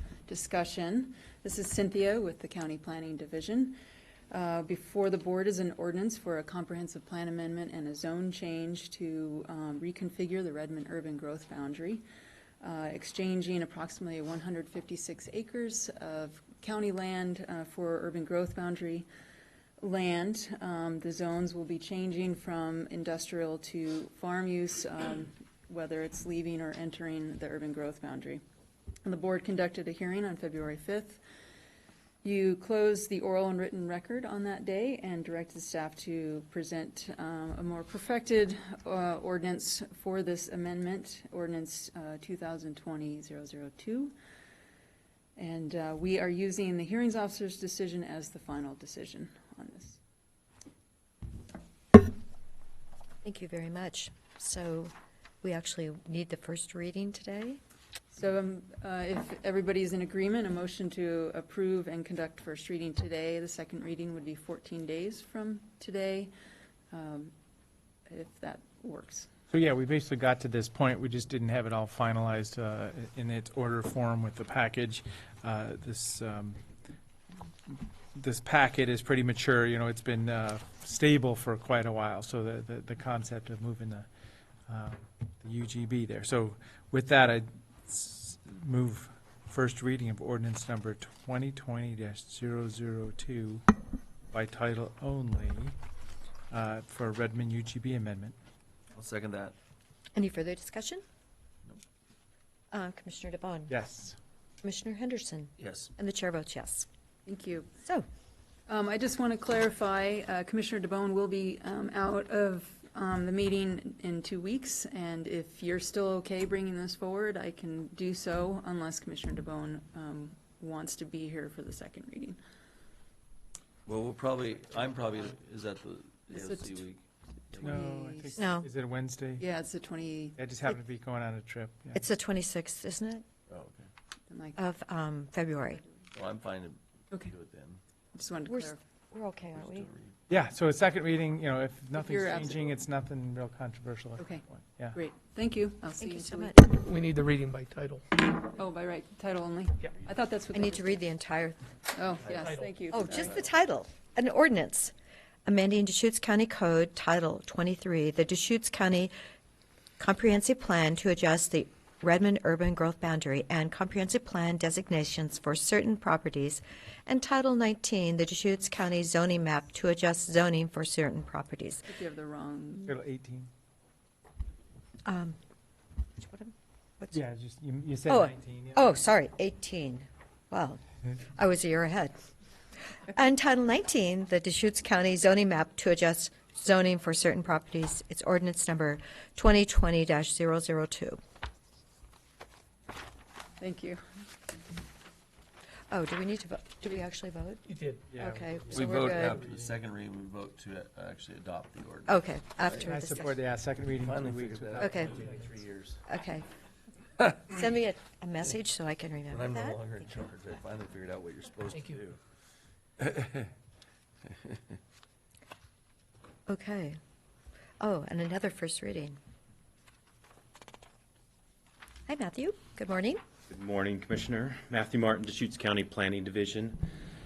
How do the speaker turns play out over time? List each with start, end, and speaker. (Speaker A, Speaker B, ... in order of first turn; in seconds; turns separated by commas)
Speaker A: 0.3-3.8, Speaker A: 4.3-12.0, Speaker A: 12.6-19.1, Speaker A: 19.8-28.4, Speaker A: 29.0-31.2, Speaker A: 32.2-44.1, Speaker A: 45.4-50.0, Speaker B: 53.2-57.6, Speaker A: 58.1-66.3, Speaker A: 66.9-67.3, Speaker A: 68.1-69.3, Speaker C: 69.5-76.6, Speaker C: 78.1-84.1, Speaker C: 84.7-93.6, Speaker C: 94.3-95.7, Speaker C: 96.5-98.3, Speaker D: 98.9-99.5, Speaker B: 100.1-101.0, Speaker B: 102.7-103.7, Speaker C: 103.7-104.2, Speaker B: 104.6-106.9, Speaker D: 105.6-105.9, Speaker A: 107.2-107.7, Speaker A: 108.7-122.4, Speaker D: 123.8-127.7, Speaker A: 126.3-126.8, Speaker A: 127.5-128.4, Speaker C: 127.6-129.4, Speaker B: 128.4-128.7, Speaker A: 129.4-130.4, Speaker C: 130.4-132.0, Speaker B: 131.9-133.2, Speaker D: 133.5-133.9, Speaker A: 134.3-134.6, Speaker B: 134.6-135.8, Speaker D: 136.1-137.8, Speaker A: 138.1-138.8, Speaker B: 138.5-139.9, Speaker D: 139.5-140.1, Speaker C: 140.3-145.0, Speaker A: 141.9-142.6, Speaker A: 144.2-146.7, Speaker B: 146.0-146.8, Speaker E: 146.7-148.1, Speaker A: 148.2-151.0, Speaker B: 150.5-151.6, Speaker A: 151.9-153.4, Speaker E: 152.4-152.7, Speaker B: 152.9-154.9, Speaker B: 155.4-159.1, Speaker B: 160.0-171.9, Speaker A: 171.9-172.9, Speaker C: 172.8-173.5, Speaker B: 175.1-175.4, Speaker B: 176.2-177.2, Speaker C: 177.1-178.9, Speaker B: 178.1-180.8, Speaker B: 181.3-182.1, Speaker B: 183.1-191.2, Speaker A: 193.6-194.0, Speaker B: 195.9-197.6, Speaker E: 197.7-198.0, Speaker C: 198.1-199.7, Speaker B: 198.2-199.4, Speaker D: 198.7-202.2, Speaker B: 202.1-203.3, Speaker C: 202.7-205.5, Speaker D: 204.0-206.0, Speaker B: 204.8-205.1, Speaker B: 206.1-206.4, Speaker B: 207.4-209.8, Speaker D: 209.3-212.2, Speaker D: 213.0-213.5, Speaker B: 216.5-217.0, Speaker B: 217.8-219.2, Speaker B: 222.1-223.2, Speaker F: 223.5-226.8